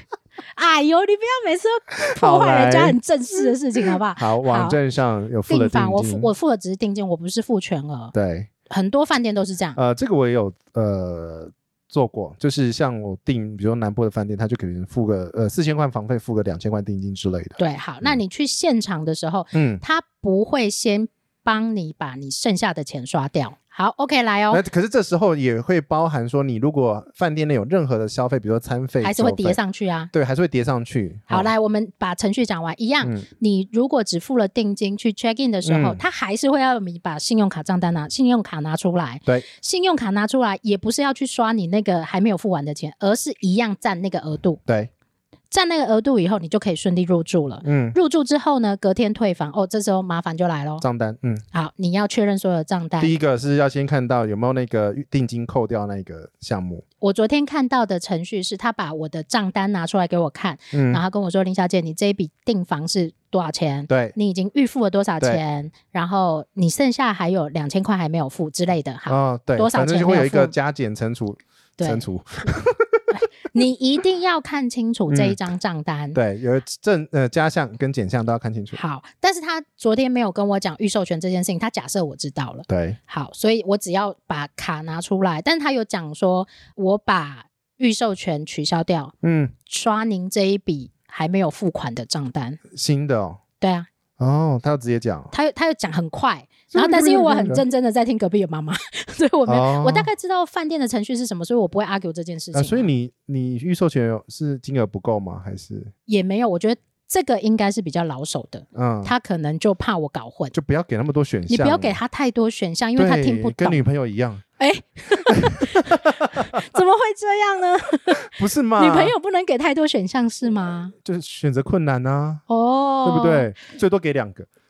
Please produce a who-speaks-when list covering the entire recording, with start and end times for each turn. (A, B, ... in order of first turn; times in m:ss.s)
0:00.6-0:04.8 A
0:02.1-0:03.0 B
0:04.1-0:06.3 B
0:05.5-0:08.1 A
0:08.1-0:08.5 B
0:08.7-0:09.8 A
0:09.7-0:18.2 B
0:17.6-0:24.6 A
0:19.5-0:19.8 B
0:24.5-0:29.6 B
0:29.0-0:30.1 A
0:30.1-0:31.5 B
0:31.3-0:44.6 A
0:35.6-0:36.0 B
0:45.5-0:50.8 A
0:47.6-0:48.0 B
0:50.8-0:51.4 B
0:51.5-0:53.1 A
0:53.0-0:56.8 B
0:57.0-1:10.5 A
1:00.7-1:01.0 B
1:03.9-1:04.1 B
1:09.1-1:13.1 B
1:11.8-1:12.0 A
1:13.1-1:16.2 A
1:15.1-1:15.4 B
1:16.1-1:18.8 B
1:18.7-1:29.1 A
1:22.7-1:23.0 B
1:29.2-1:29.5 B
1:29.6-1:32.6 A
1:32.7-1:33.4 B
1:33.6-1:33.9 A
1:34.2-1:35.3 B
1:35.3-1:42.9 A
1:36.7-1:37.6 B
1:39.4-1:40.1 B
1:42.5-1:45.9 B
1:46.1-1:50.5 A
1:48.7-1:49.1 B
1:50.5-1:52.0 B
1:51.5-1:53.8 A
1:53.0-1:54.4 B
1:54.6-2:00.9 A
1:55.2-1:56.6 B
1:58.2-1:59.1 B
2:01.0-2:02.4 B
2:02.5-2:03.5 A
2:03.0-2:04.5 B